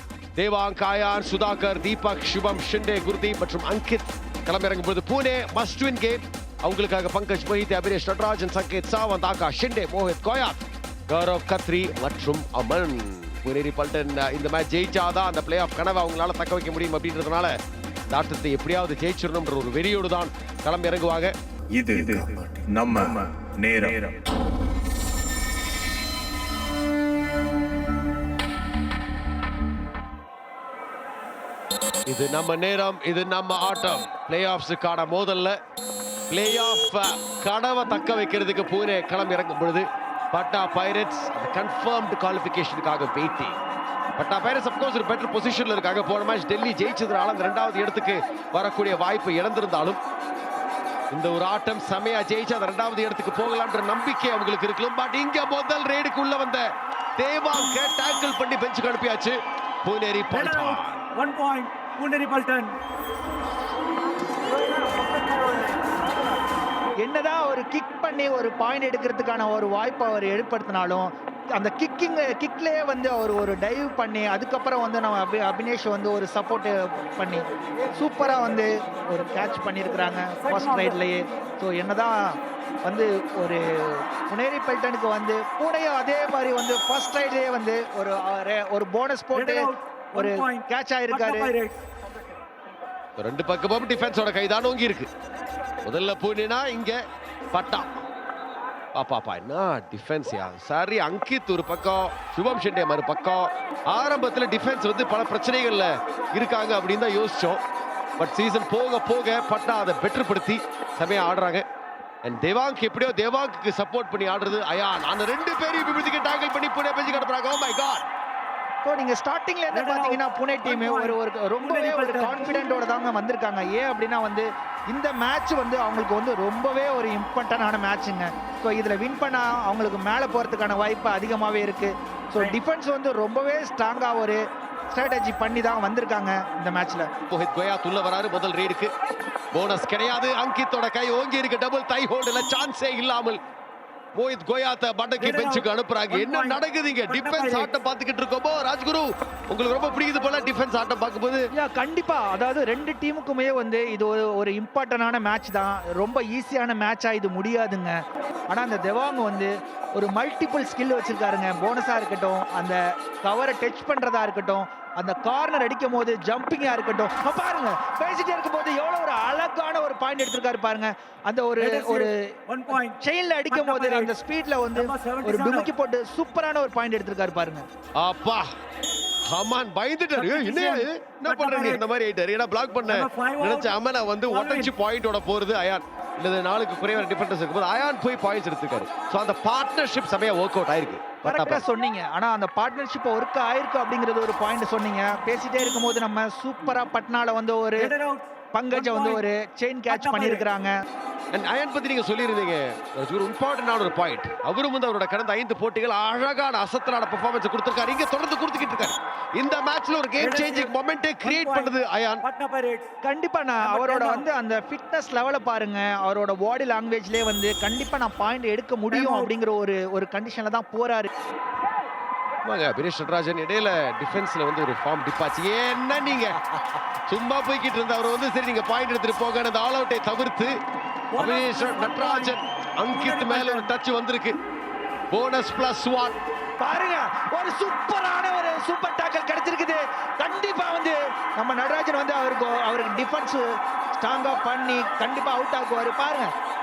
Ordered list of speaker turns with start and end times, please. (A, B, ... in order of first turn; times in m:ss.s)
0:00.4-0:17.6 A
0:18.1-0:21.3 A
0:21.7-0:24.1 B
0:22.7-0:23.1 A
0:23.6-0:24.0 A
0:32.1-0:35.6 A
0:36.3-0:43.6 A
0:44.2-0:50.0 A
0:51.1-0:56.6 A
0:57.2-1:01.0 A
1:00.3-1:02.8 C
1:07.0-1:17.4 D
1:17.9-1:22.1 D
1:20.4-1:21.0 C
1:22.8-1:31.5 D
1:29.3-1:31.8 C
1:33.2-1:35.1 A
1:35.8-1:37.0 A
1:37.5-1:38.0 A
1:38.9-1:47.6 A
1:48.2-1:51.6 A
1:52.2-1:58.1 A
1:58.8-2:14.4 D
1:59.7-2:02.4 C
2:14.9-2:17.1 D
2:17.3-2:18.9 A
2:19.5-2:23.4 A
2:24.2-2:31.5 A
2:25.2-2:27.7 C
2:31.5-2:37.9 D
2:38.5-2:57.6 D
2:51.6-2:53.0 C
2:53.5-2:54.1 C
2:54.7-2:55.7 C
2:58.0-2:58.5 A
2:59.3-3:11.6 A
3:00.1-3:01.8 C
3:02.8-3:03.7 C
3:04.3-3:04.7 C
3:11.2-3:17.9 D
3:17.8-3:19.2 C
3:18.5-3:20.7 D
3:19.9-3:20.4 C
3:21.3-3:32.2 A
3:30.2-3:32.9 C
3:33.0-3:41.1 D
3:33.6-3:34.2 C
3:38.9-3:39.3 C
3:42.4-3:46.4 A
3:47.1-3:50.5 A
3:51.1-3:53.7 C
3:51.2-3:54.3 A
3:55.1-3:56.2 A
3:56.6-4:03.4 D
4:03.9-4:06.3 D